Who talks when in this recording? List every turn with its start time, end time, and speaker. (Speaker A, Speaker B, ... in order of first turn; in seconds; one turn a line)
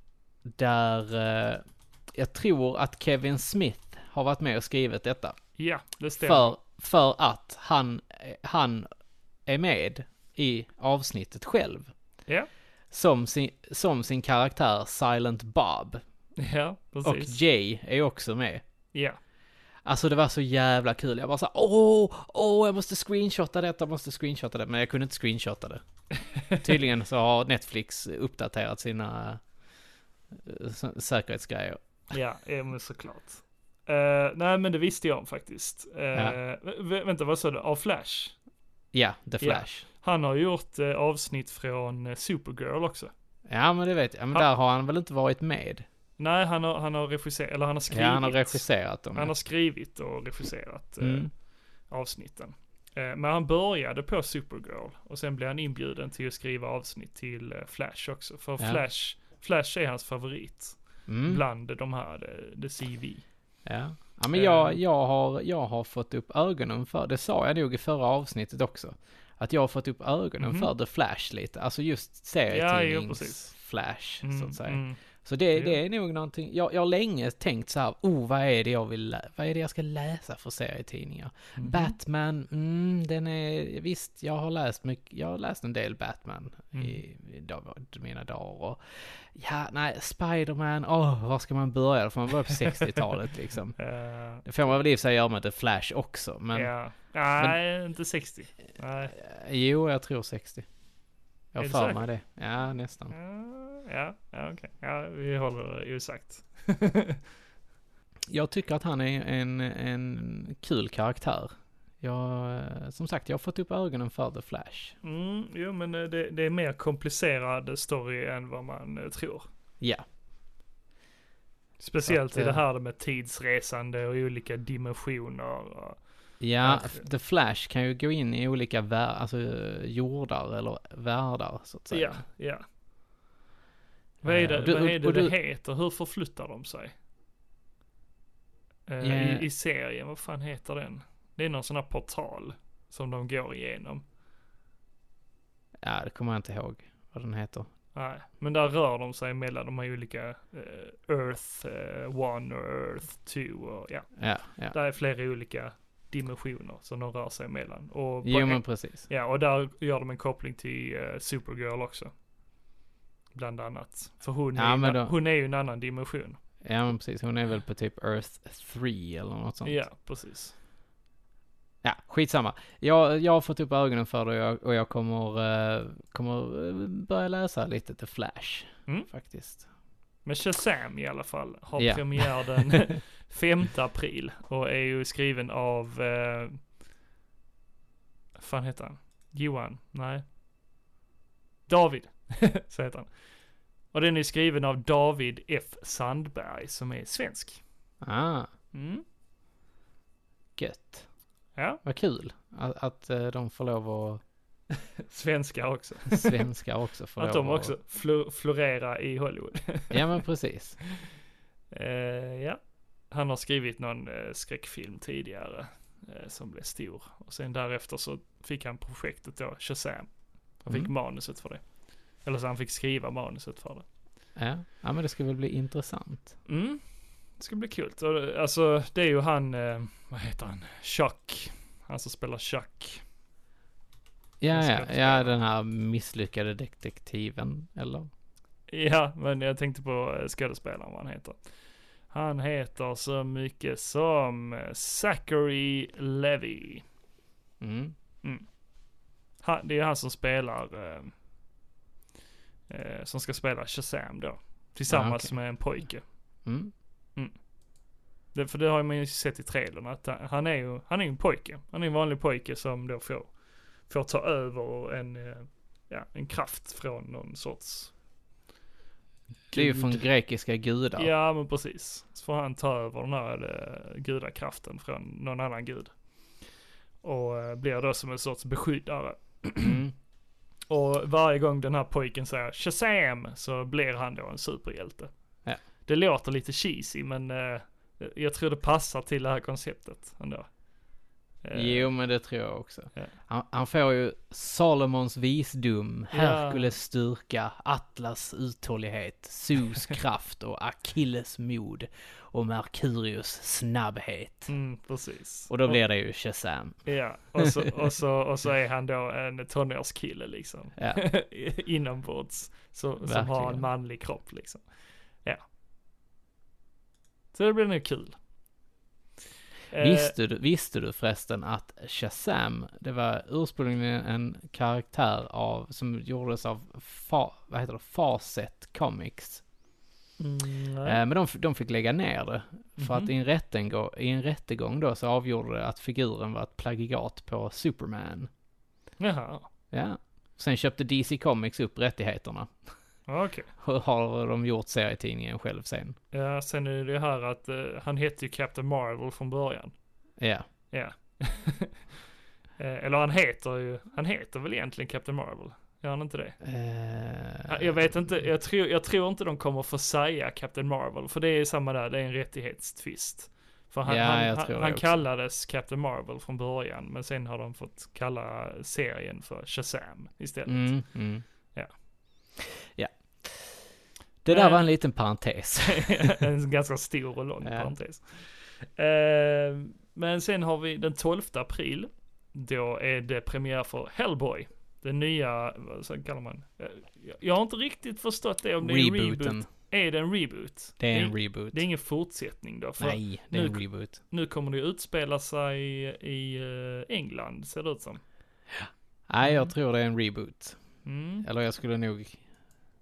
Speaker A: 0.5-5.4
Speaker B: 5.6-6.6
Speaker A: 6.2-8.9
Speaker A: 9.5-11.9
Speaker A: 12.9-16.0
Speaker B: 16.4-17.4
Speaker A: 17.0-18.6
Speaker A: 19.9-25.8
Speaker B: 26.2-26.6
Speaker A: 26.6-29.4
Speaker A: 30.3-31.8
Speaker B: 32.1-38.4
Speaker A: 38.9-39.9
Speaker B: 39.4-43.1
Speaker A: 43.5-45.9
Speaker B: 46.2-51.3
Speaker A: 47.9-49.4
Speaker A: 51.0-51.3
Speaker B: 51.9-63.2
Speaker A: 61.1-61.4
Speaker A: 63.7-93.8
Speaker B: 64.3-64.8
Speaker B: 70.4-70.7
Speaker B: 72.5-73.5
Speaker B: 74.2-75.0
Speaker B: 81.6-81.9
Speaker B: 86.7-87.0
Speaker B: 93.8-94.5
Speaker A: 94.4-96.7
Speaker B: 96.5-99.2
Speaker A: 99.1-100.7
Speaker A: 101.5-103.1
Speaker B: 101.6-102.1
Speaker B: 103.1-107.2
Speaker A: 108.3-115.0
Speaker B: 115.0-119.5
Speaker B: 121.8-126.0
Speaker A: 122.0-122.6
Speaker A: 126.4-132.2
Speaker B: 126.6-127.0
Speaker B: 131.9-132.7
Speaker A: 134.2-135.3
Speaker B: 134.2-136.9
Speaker B: 138.9-144.0
Speaker A: 139.0-139.4
Speaker A: 145.8-147.7
Speaker B: 147.9-154.1
Speaker A: 154.2-154.8
Speaker B: 154.7-162.1
Speaker A: 158.2-159.1
Speaker B: 163.3-166.4
Speaker A: 164.6-165.1
Speaker A: 166.6-169.8
Speaker B: 169.6-170.5
Speaker A: 171.8-179.7
Speaker B: 180.2-186.6
Speaker A: 181.8-182.8
Speaker B: 188.4-190.2
Speaker B: 191.7-193.1
Speaker B: 193.9-197.6
Speaker A: 198.0-198.5
Speaker B: 198.7-199.0
Speaker A: 200.6-201.1
Speaker B: 201.6-201.8
Speaker A: 201.8-204.2
Speaker B: 204.7-206.4
Speaker A: 206.1-207.7
Speaker B: 207.2-210.0
Speaker A: 209.9-210.8
Speaker B: 211.7-212.6
Speaker B: 213.1-221.6
Speaker B: 222.2-223.8
Speaker A: 224.4-226.3
Speaker B: 226.5-226.8
Speaker B: 227.4-233.0
Speaker A: 234.4-238.1
Speaker B: 234.5-235.3
Speaker B: 238.7-241.4
Speaker B: 242.1-246.8
Speaker A: 247.6-247.9
Speaker B: 249.4-251.1
Speaker B: 252.7-256.0
Speaker A: 254.9-255.3
Speaker A: 256.4-256.7
Speaker B: 258.3-263.3
Speaker B: 263.9-267.9
Speaker B: 269.5-270.0
Speaker A: 269.5-271.1
Speaker B: 271.0-275.9
Speaker B: 277.0-279.8
Speaker A: 279.6-279.9
Speaker B: 280.7-285.1
Speaker B: 285.9-290.5
Speaker B: 291.4-291.9
Speaker A: 291.5-304.5
Speaker B: 296.1-296.7
Speaker B: 304.5-305.8
Speaker A: 305.5-306.9
Speaker B: 306.9-314.6
Speaker A: 307.4-307.7
Speaker A: 310.8-311.0
Speaker A: 313.0-313.7
Speaker B: 317.3-318.2
Speaker B: 319.7-320.1
Speaker A: 319.8-329.4
Speaker B: 330.2-331.0
Speaker A: 330.9-338.3
Speaker B: 332.8-333.1
Speaker B: 339.0-339.5
Speaker A: 339.7-342.5
Speaker B: 343.1-343.5
Speaker A: 343.6-346.0
Speaker B: 346.1-349.7
Speaker A: 350.2-350.4
Speaker B: 350.7-351.9
Speaker B: 352.6-356.4
Speaker A: 356.4-357.9
Speaker B: 357.5-370.8
Speaker A: 363.9-365.0
Speaker A: 370.5-371.2
Speaker A: 372.4-373.7
Speaker A: 374.2-376.2
Speaker B: 374.3-374.6
Speaker B: 375.6-398.0
Speaker A: 377.4-377.7
Speaker A: 388.6-389.5
Speaker A: 390.8-391.6
Speaker A: 392.8-394.0
Speaker A: 398.6-400.6
Speaker B: 400.9-401.3
Speaker A: 401.2-402.2